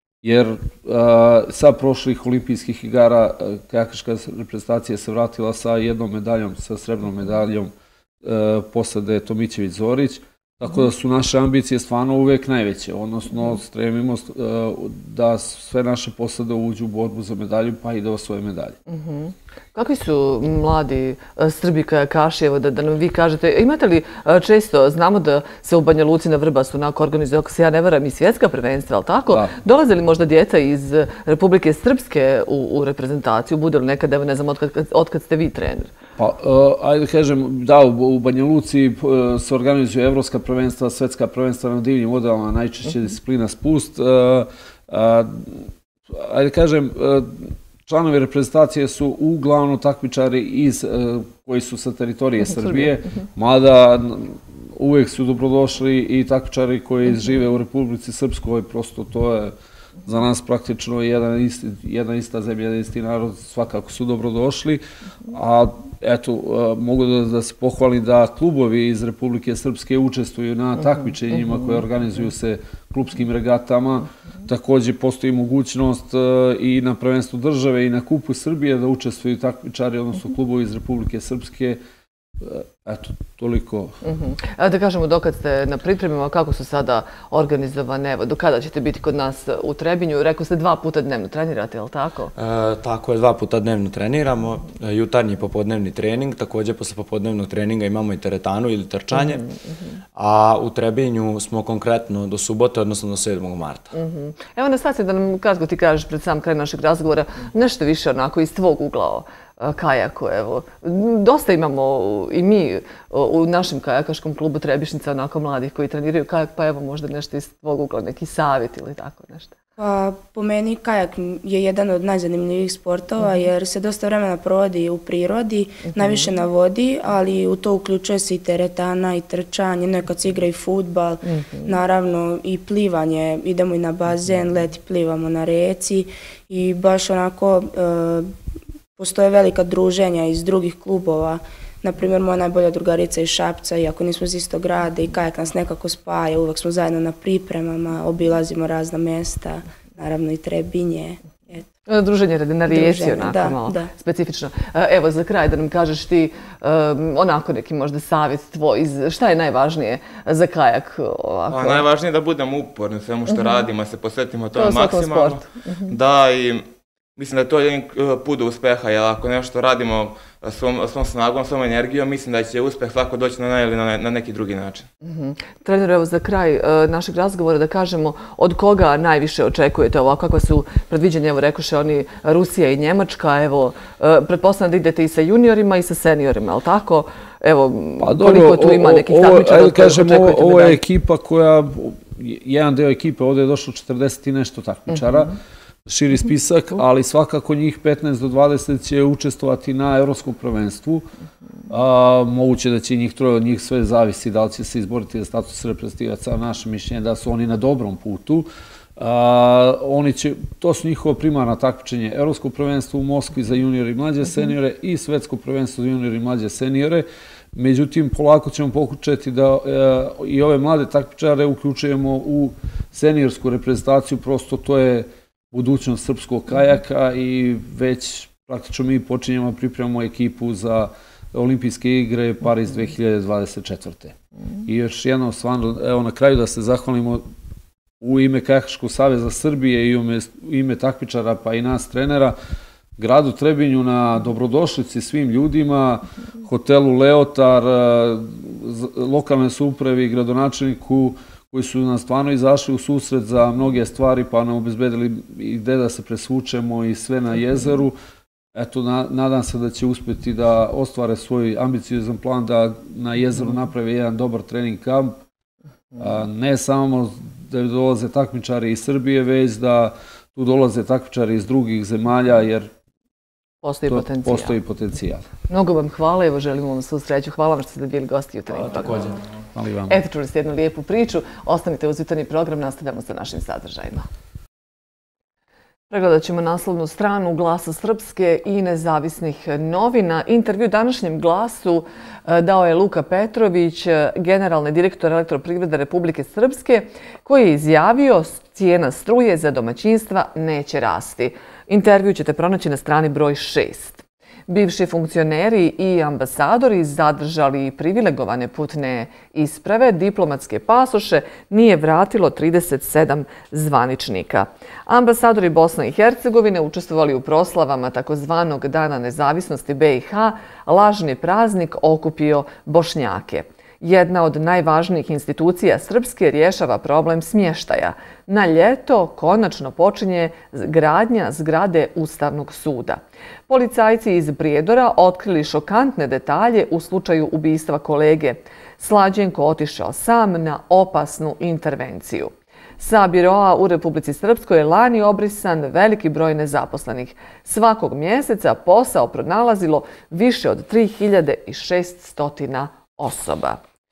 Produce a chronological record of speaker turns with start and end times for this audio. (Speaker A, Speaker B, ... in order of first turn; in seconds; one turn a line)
Speaker A: 0.2-7.7
Speaker A: 8.2-18.8
Speaker B: 18.9-35.9
Speaker A: 36.2-59.5
Speaker A: 60.0-81.8
Speaker A: 82.4-83.9
Speaker B: 84.0-92.3
Speaker C: 92.4-99.5
Speaker B: 99.1-99.9
Speaker C: 100.2-103.9
Speaker B: 103.9-119.5
Speaker D: 119.8-138.3
Speaker B: 125.9-126.3
Speaker B: 131.3-131.7
Speaker D: 139.0-151.7
Speaker B: 151.9-161.9
Speaker D: 152.7-153.9
Speaker E: 161.5-174.9
Speaker B: 163.3-163.7
Speaker B: 164.5-166.0
Speaker B: 175.0-190.8
Speaker A: 188.0-201.1
Speaker A: 201.7-234.2
Speaker A: 234.7-237.3
Speaker A: 238.0-242.4
Speaker A: 243.0-257.9
Speaker A: 258.6-265.2
Speaker A: 266.0-272.7
Speaker B: 273.6-274.6
Speaker A: 273.9-275.2
Speaker B: 275.5-279.2
Speaker A: 279.6-280.0
Speaker B: 279.9-284.1
Speaker B: 285.9-353.6